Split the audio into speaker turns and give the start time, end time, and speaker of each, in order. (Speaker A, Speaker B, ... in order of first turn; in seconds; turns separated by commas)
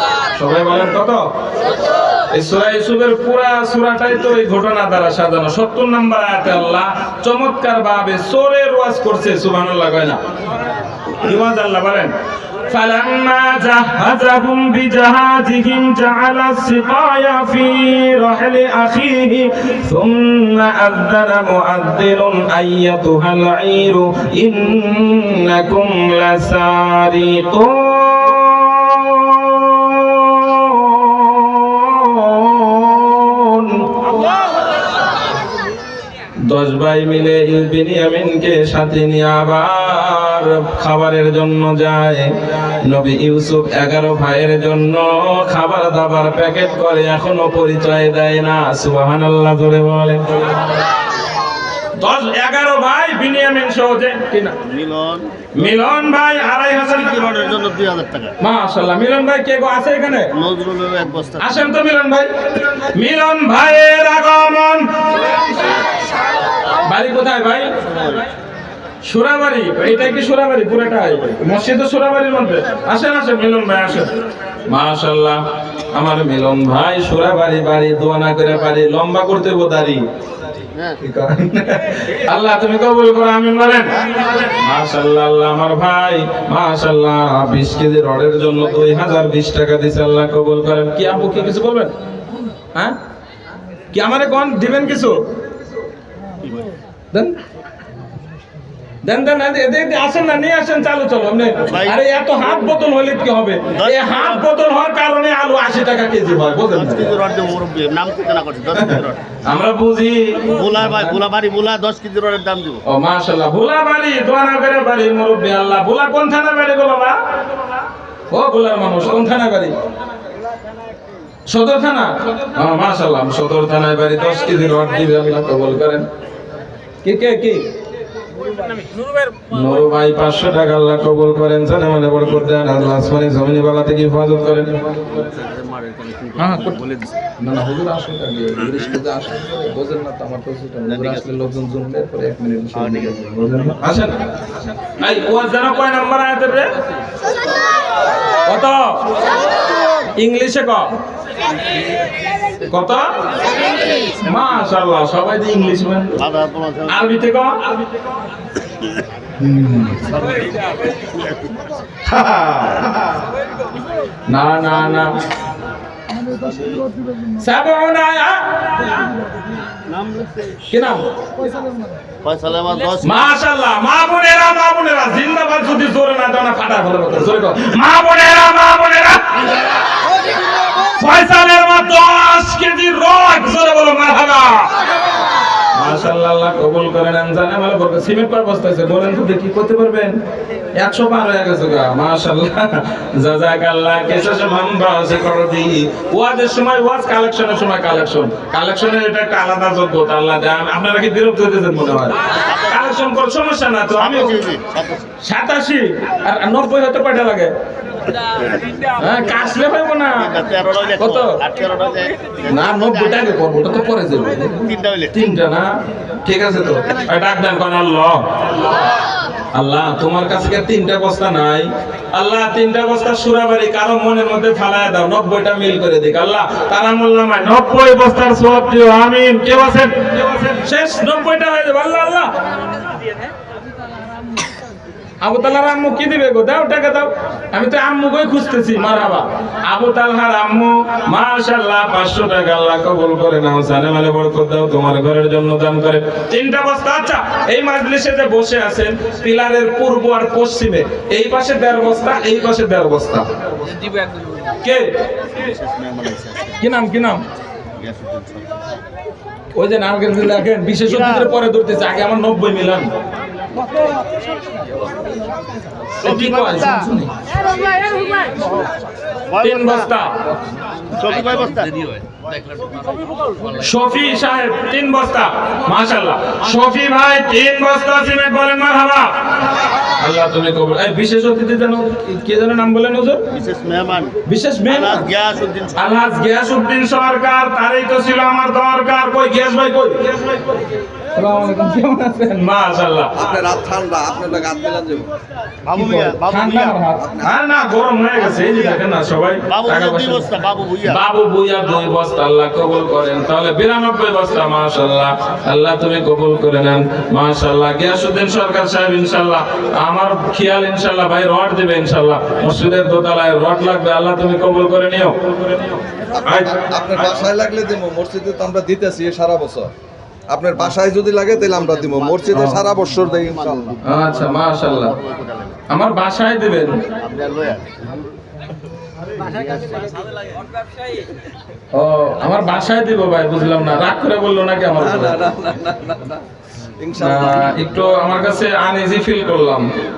Speaker A: 0.3-1.2, Speaker A: 2.3-10.2, Speaker A: 11.2-12.1, Speaker A: 12.7-33.8, Speaker A: 36.5-42.3, Speaker A: 42.8-50.2, Speaker A: 52.0-54.5, Speaker B: 54.7-55.2, Speaker A: 55.5-57.3, Speaker B: 57.2-58.3, Speaker A: 58.4-60.3, Speaker B: 60.4-61.4, Speaker A: 61.4-64.8, Speaker A: 66.8-67.7, Speaker A: 69.0-74.1, Speaker A: 74.7-75.4, Speaker A: 75.9-80.0, Speaker A: 81.0-83.9, Speaker A: 84.6-91.9, Speaker A: 93.9-95.2, Speaker A: 99.0-107.1, Speaker B: 103.8-104.3, Speaker B: 106.8-109.2, Speaker A: 108.8-111.1, Speaker B: 110.5-112.8, Speaker A: 112.9-117.2, Speaker A: 118.3-119.7, Speaker A: 121.5-126.0, Speaker A: 127.0-127.6, Speaker A: 129.5-135.1, Speaker B: 135.3-137.1, Speaker A: 136.4-136.8, Speaker A: 137.4-144.1, Speaker A: 145.0-146.7, Speaker A: 148.4-148.9, Speaker A: 150.2-150.9, Speaker A: 152.7-153.1, Speaker A: 154.2-156.2, Speaker B: 156.3-156.8, Speaker A: 156.9-157.6, Speaker A: 159.4-160.0, Speaker A: 162.1-163.1, Speaker A: 164.3-165.1, Speaker A: 167.4-169.0, Speaker A: 170.7-171.0, Speaker B: 172.2-173.1, Speaker A: 173.0-179.4, Speaker A: 180.8-184.7, Speaker A: 185.8-190.2, Speaker A: 190.8-204.4, Speaker B: 204.0-205.0, Speaker A: 205.2-207.5, Speaker A: 209.0-210.3, Speaker B: 210.3-212.1, Speaker A: 211.0-211.3, Speaker A: 212.4-215.7, Speaker B: 214.7-215.1, Speaker A: 216.2-218.2, Speaker A: 219.5-232.3, Speaker A: 235.2-253.2, Speaker A: 254.6-254.9, Speaker B: 255.4-256.5, Speaker A: 256.6-257.2, Speaker B: 257.8-258.5, Speaker A: 259.5-262.9, Speaker A: 266.0-267.1, Speaker A: 269.4-270.1, Speaker B: 269.4-269.8, Speaker B: 271.0-271.7, Speaker A: 273.6-279.1, Speaker A: 280.0-283.2, Speaker B: 283.3-284.1, Speaker A: 284.2-285.1, Speaker B: 284.7-285.7, Speaker A: 285.8-290.0, Speaker A: 291.1-293.1, Speaker C: 293.2-295.1, Speaker B: 295.7-296.7, Speaker A: 295.7-315.1, Speaker B: 299.5-300.9, Speaker A: 316.2-316.6, Speaker C: 316.5-319.7, Speaker C: 320.3-323.8, Speaker A: 322.3-322.6, Speaker A: 323.9-324.9, Speaker B: 324.9-325.5, Speaker A: 325.7-326.8, Speaker B: 327.0-327.8, Speaker A: 331.8-335.2, Speaker C: 334.8-336.2, Speaker C: 336.8-337.5, Speaker A: 337.0-339.7